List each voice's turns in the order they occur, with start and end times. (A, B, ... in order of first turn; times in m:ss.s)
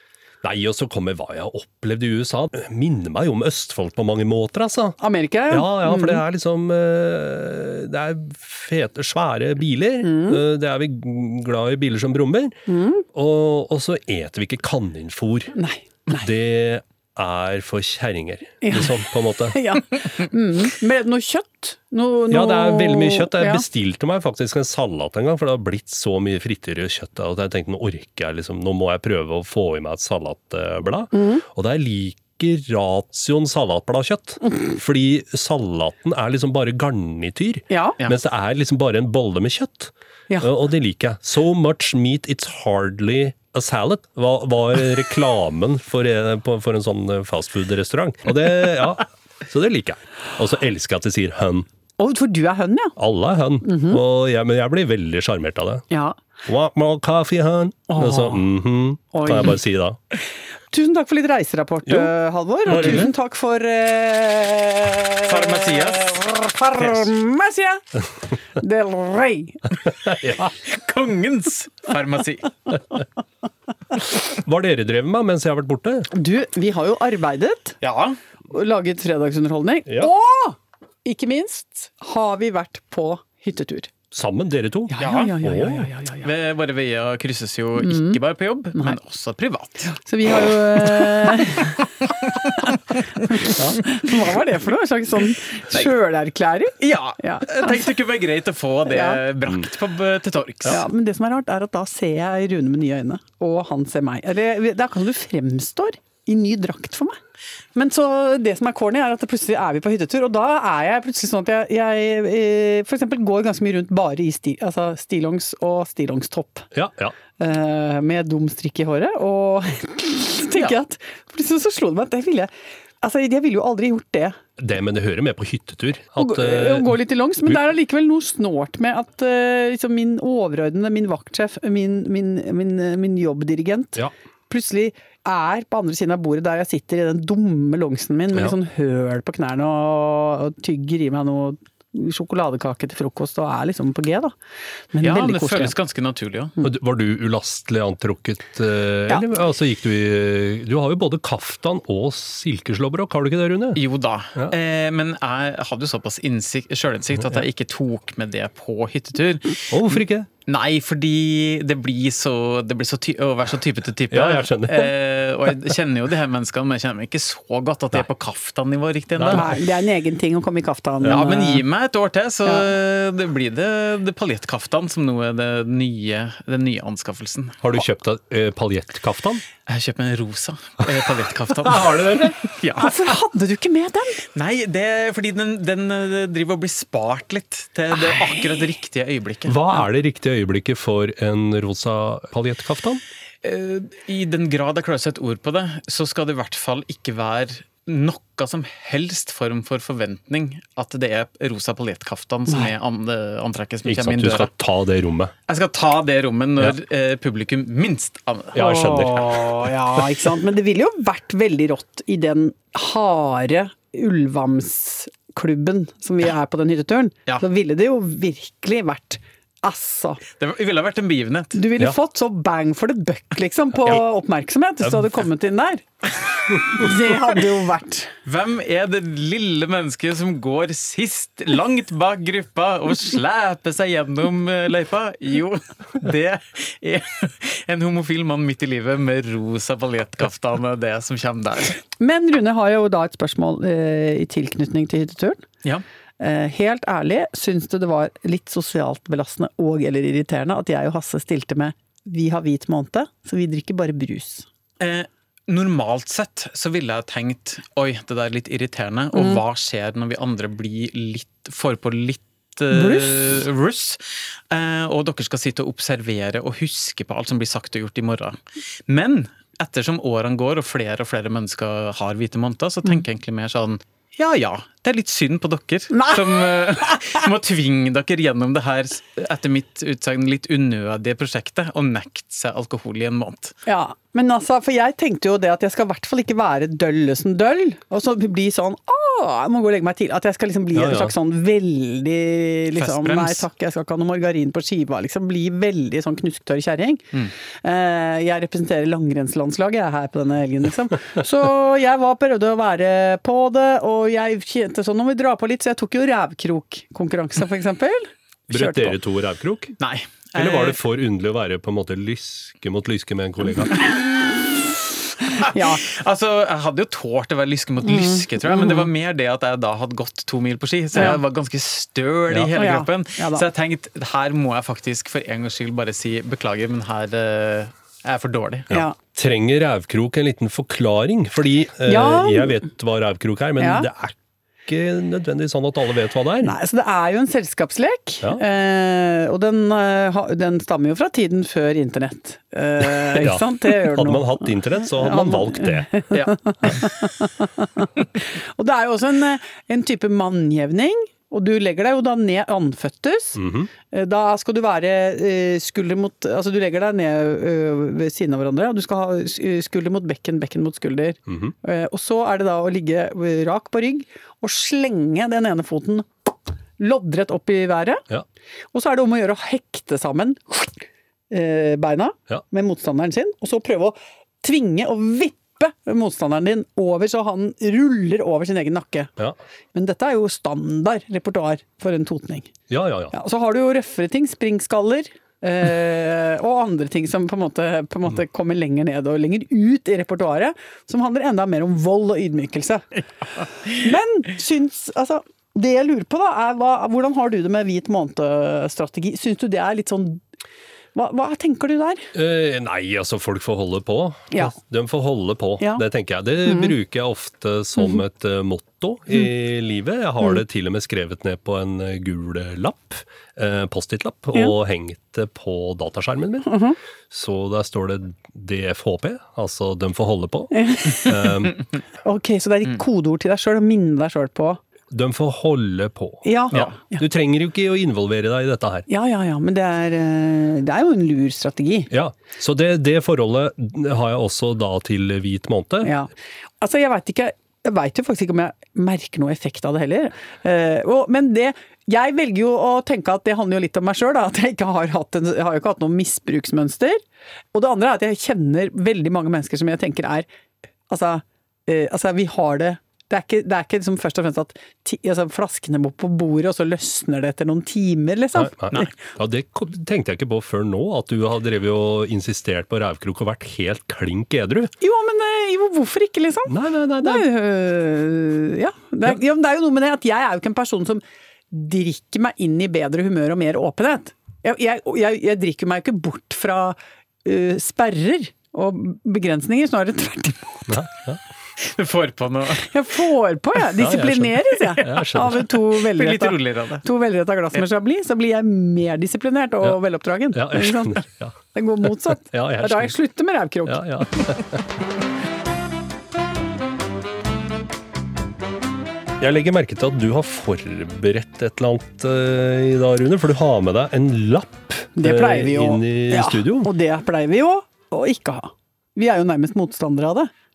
0:00.4-0:05.0 A
0:05.0-0:06.2 B
0:05.5-0:12.6 A
0:10.0-0:10.4 B
0:12.7-0:13.0 B
0:13.1-0:15.5 A
0:15.5-0:16.3 B
0:16.1-0:19.6 A
0:18.6-0:23.6 B
0:22.3-0:51.7 A
0:31.1-0:31.4 B
0:37.7-0:38.0 B
0:52.0-0:53.0 B
0:53.0-0:55.8 A
0:53.6-0:54.0 B
0:55.9-0:56.2 B
0:56.4-1:00.0 A
0:57.9-0:58.4 B
0:59.1-0:59.6 B
1:00.7-1:07.8 B
1:02.7-1:03.1 A
1:02.7-1:03.0 C
1:05.2-1:06.2 C
1:06.8-1:07.1 C
1:08.5-1:09.7 B
1:10.1-1:10.5 A
1:10.5-1:12.7 C
1:14.2-1:16.1 A
1:16.1-1:17.8 B
1:17.8-1:18.2 C
1:18.5-1:23.9 B
1:24.1-1:25.9 A
1:24.9-1:26.3 B
1:25.0-1:25.3 C
1:26.2-1:29.9 C
1:27.8-1:28.2 B
1:29.9-1:31.8 B
1:30.9-1:31.4 C
1:32.6-1:37.8 B
1:36.8-1:40.8 C
1:38.8-1:39.2 B
1:40.6-1:47.2 B
1:47.7-1:56.7 B
1:56.7-1:57.1 A
1:57.4-2:04.4 B
2:04.6-2:06.9 A
2:06.2-2:24.3 B
2:24.9-2:25.7 B
2:25.0-2:26.6 C
2:26.6-2:33.8 A
2:33.8-2:49.6 C
2:39.7-2:40.3 A
2:44.1-2:44.9 A
2:49.2-2:49.5 A
2:49.3-2:51.6 B
2:51.0-2:57.6 C
2:57.6-2:59.4 A
2:59.7-3:03.1 C
3:01.6-3:02.4 A
3:02.8-3:04.2 B
3:04.3-3:09.6 C
3:09.4-3:13.0 A
3:13.4-3:24.5 C
3:23.8-3:25.3 A
3:25.5-3:29.4 C
3:28.5-3:29.7 A
3:28.6-3:40.2 B
3:40.4-3:41.6 C
3:41.5-3:45.8 B
3:46.5-3:48.1 B
3:48.2-4:01.8 C
4:02.0-4:05.4 B
4:06.2-4:14.4 B
4:14.8-4:43.6 C
4:19.1-4:19.4 B
4:22.7-4:23.4 B
4:35.9-4:36.6 B
4:43.6-4:57.0 B
4:50.7-4:51.1 A
4:52.8-4:53.4 C
4:57.6-5:09.0 B
5:08.5-5:09.8 A
5:09.8-5:10.8 C
5:10.3-5:13.7 A
5:15.3-5:15.8 B
5:15.4-5:28.7 C
5:17.9-5:18.9 B
5:20.9-5:21.2 B
5:22.5-5:23.4 B
5:28.7-5:34.1 A
5:31.8-5:32.6 B
5:33.6-5:33.9 B
5:34.6-5:36.5 A
5:36.4-6:08.0 B
5:43.0-5:46.0 A
5:46.1-5:46.8 C
5:53.4-5:53.7 A
6:08.7-6:19.1 B
6:19.7-6:22.5 B
6:22.7-6:23.1 A
6:23.1-6:32.9 B
6:33.6-6:40.2 B
6:40.9-6:42.1 B
6:42.1-6:56.6 A
6:46.4-6:46.7 B
6:56.4-6:56.8 B
6:57.1-7:01.6 A
7:00.5-7:01.4 B
7:02.0-7:04.6 B
7:04.9-7:08.9 A
7:06.2-7:07.0 B
7:08.9-7:11.9 B
7:11.9-7:15.9 A
7:15.8-7:27.0 B
7:27.5-7:30.3 B
7:30.9-7:38.9 B
7:38.3-7:44.7 A
7:44.8-8:00.9 B
7:46.5-7:47.3 A
8:00.7-8:01.2 A
8:01.6-8:02.7 C
8:02.6-8:14.3 B
8:03.8-8:05.4 A
8:05.7-8:06.8 C
8:10.3-8:13.0 A
8:13.6-8:14.6 A
8:19.2-8:26.7 A
8:25.0-8:30.3 B